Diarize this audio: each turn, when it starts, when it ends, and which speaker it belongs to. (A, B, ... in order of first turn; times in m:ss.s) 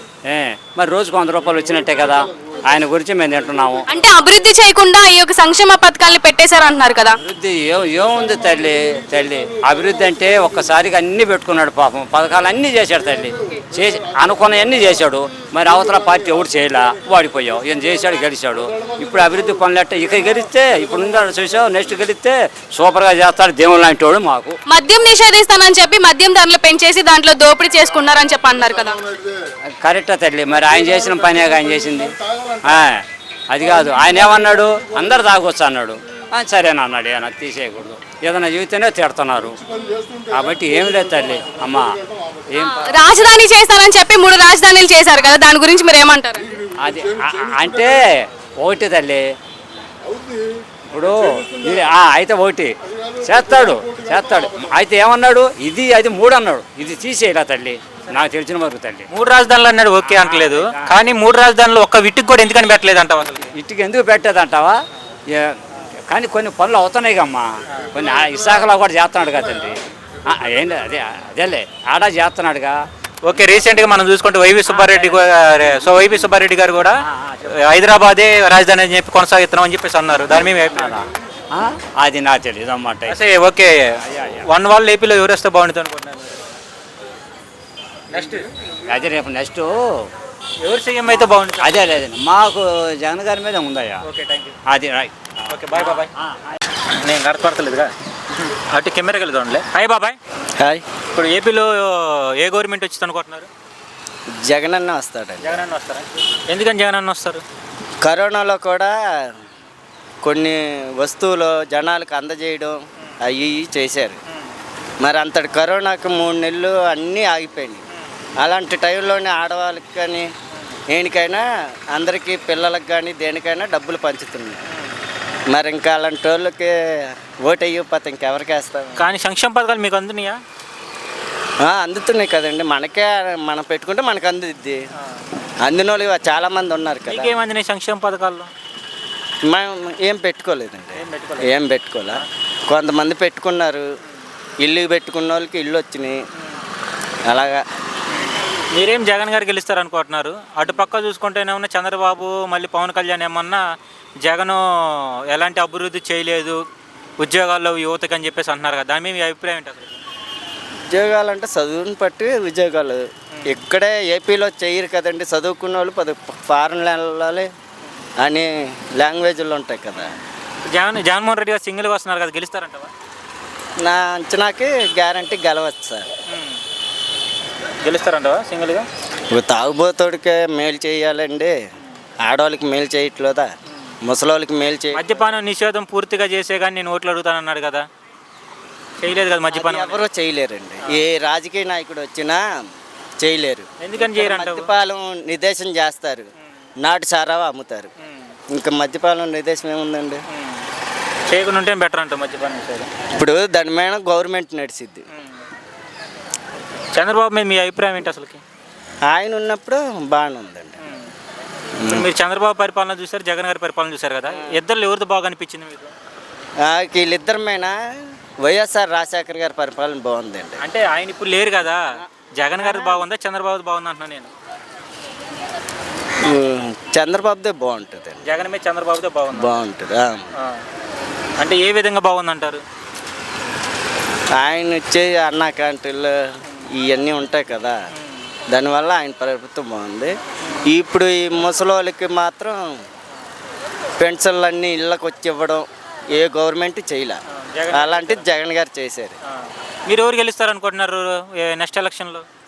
0:00.3-0:03.9 A
0:03.9-0:07.2 B
0:07.2-0:24.6 A
0:24.7-0:29.0 B
0:29.7-0:39.6 A
0:40.3-0:42.0 A
0:42.5-0:43.0 A
0:42.7-0:46.5 B
0:46.8-0:49.2 A
0:50.9-0:59.1 A
0:59.1-1:03.5 C
1:00.0-1:01.0 A
1:03.5-1:04.8 A
1:05.3-1:12.8 A
1:13.2-1:17.0 C
1:14.6-1:15.3 A
1:15.8-1:16.3 A
1:17.0-1:17.6 A
1:17.5-1:21.0 C
1:20.7-1:23.2 A
1:23.1-1:26.4 C
1:24.0-1:24.5 A
1:28.1-1:28.5 C
1:28.9-1:30.1 A
1:30.6-1:31.8 C
1:31.0-1:34.0 A
1:34.0-1:34.6 C
1:34.7-1:36.5 A
1:35.5-1:36.1 C
1:36.9-1:40.2 C
1:41.1-1:43.5 C
1:44.4-1:45.6 D
1:45.4-1:47.4 C
1:48.0-1:49.3 D
1:50.2-1:54.2 D
1:55.0-1:57.8 D
1:57.9-1:58.2 C
1:58.4-2:00.3 D
2:00.5-2:00.8 C
2:00.9-2:04.6 D
2:04.7-2:04.9 C
2:05.5-2:09.1 D
2:09.0-2:10.4 C
2:11.6-2:14.8 D
2:15.0-2:15.3 C
2:15.6-2:17.4 D
2:17.1-2:18.5 C
2:19.5-2:23.8 D
2:20.9-2:21.5 C
2:24.6-2:26.2 D
2:27.3-2:27.6 D
2:28.1-2:33.6 C
2:34.2-2:36.6 C
2:37.2-2:40.0 C
2:40.9-2:47.5 D
2:48.2-2:50.1 D
2:50.7-2:52.9 C
2:53.8-2:56.0 D
2:56.3-2:56.6 C
2:57.8-2:58.9 C
2:59.3-3:01.5 D
3:02.2-3:03.5 D
3:03.7-3:04.0 C
3:04.0-3:05.2 D
3:04.9-3:07.9 C
3:09.0-3:10.0 C
3:09.5-3:12.4 D
3:13.2-3:16.3 D
3:13.8-3:14.7 C
3:16.8-3:17.9 D
3:18.0-3:18.3 C
3:18.5-3:20.2 D
3:20.3-3:20.6 C
3:21.3-3:22.9 C
3:23.1-3:25.0 D
3:25.1-3:25.4 C
3:26.9-3:28.4 C
3:29.1-3:30.8 D
3:30.8-3:31.1 C
3:31.8-3:32.1 D
3:31.9-3:35.9 C
3:34.3-3:34.6 D
3:36.6-3:37.7 D
3:38.4-3:40.6 D
3:40.6-3:41.8 C
3:42.4-3:44.3 C
3:42.5-3:43.0 D
3:46.2-3:48.2 D
3:48.2-3:49.6 C
3:49.3-3:50.3 D
3:51.4-3:52.6 C
3:54.4-3:56.2 D
3:56.7-3:57.8 D
3:57.9-3:58.3 C
3:58.5-4:00.1 D
4:00.4-4:00.7 C
4:00.6-4:02.6 D
4:04.0-4:07.2 D
4:07.4-4:08.2 C
4:07.7-4:09.2 D
4:09.3-4:12.2 C